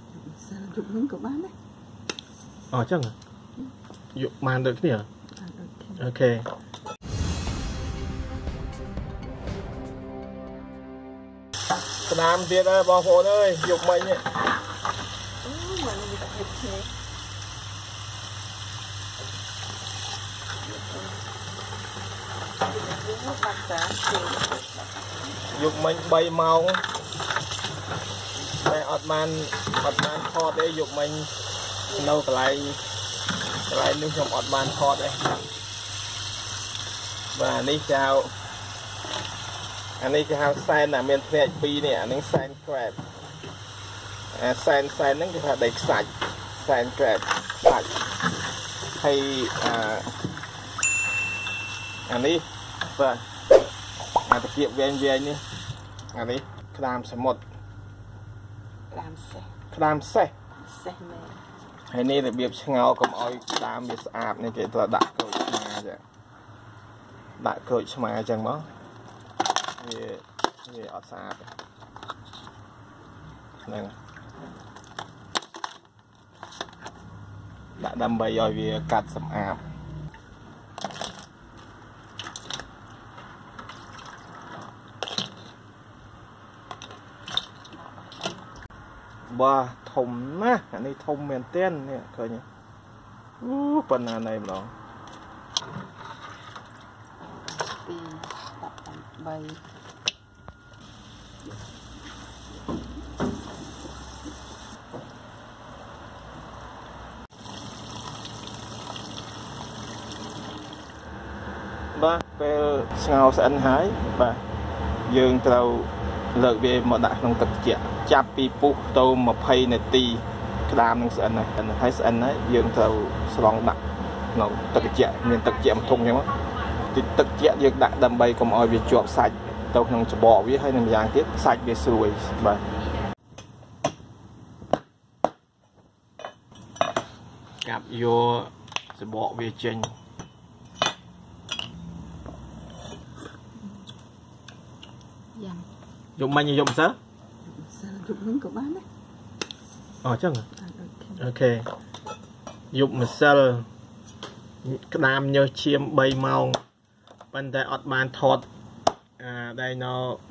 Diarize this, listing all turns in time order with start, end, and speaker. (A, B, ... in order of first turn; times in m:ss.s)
0:00.1-0:01.5 A
0:02.7-0:03.1 B
0:04.1-0:05.1 B
0:05.3-0:06.0 A
0:06.0-0:06.5 B
0:12.0-0:14.2 B
0:15.4-0:16.9 A
0:20.7-0:21.1 A
0:22.6-0:24.7 A
0:25.5-0:26.8 B
0:28.6-0:31.3 B
0:31.9-0:32.8 B
0:33.7-0:35.3 B
0:37.3-0:38.3 B
0:40.0-0:43.0 B
0:44.3-0:48.0 B
0:49.0-0:50.1 B
0:52.1-0:53.2 B
0:54.2-0:55.4 B
0:56.1-0:57.4 B
0:58.9-0:59.5 A
0:59.7-1:00.3 B
1:00.6-1:01.4 A
1:01.9-1:06.0 B
1:07.4-1:08.7 B
1:09.8-1:11.5 B
1:13.6-1:14.0 B
1:17.8-1:19.6 B
1:27.7-1:28.4 A
1:29.3-1:32.4 B
1:33.4-1:34.7 B
1:37.5-1:39.6 A
1:51.9-1:54.4 B
1:55.1-2:03.8 B
2:04.3-2:06.3 B
2:06.9-2:12.6 B
2:17.6-2:19.9 B
2:25.4-2:25.6 A
2:26.2-2:27.0 B
2:27.4-2:28.8 A
2:30.0-2:30.4 B
2:30.6-2:31.2 A
2:31.2-2:31.7 B
2:32.7-2:33.7 B
2:34.6-2:36.6 B
2:37.3-2:38.5 B
2:39.2-2:40.2 B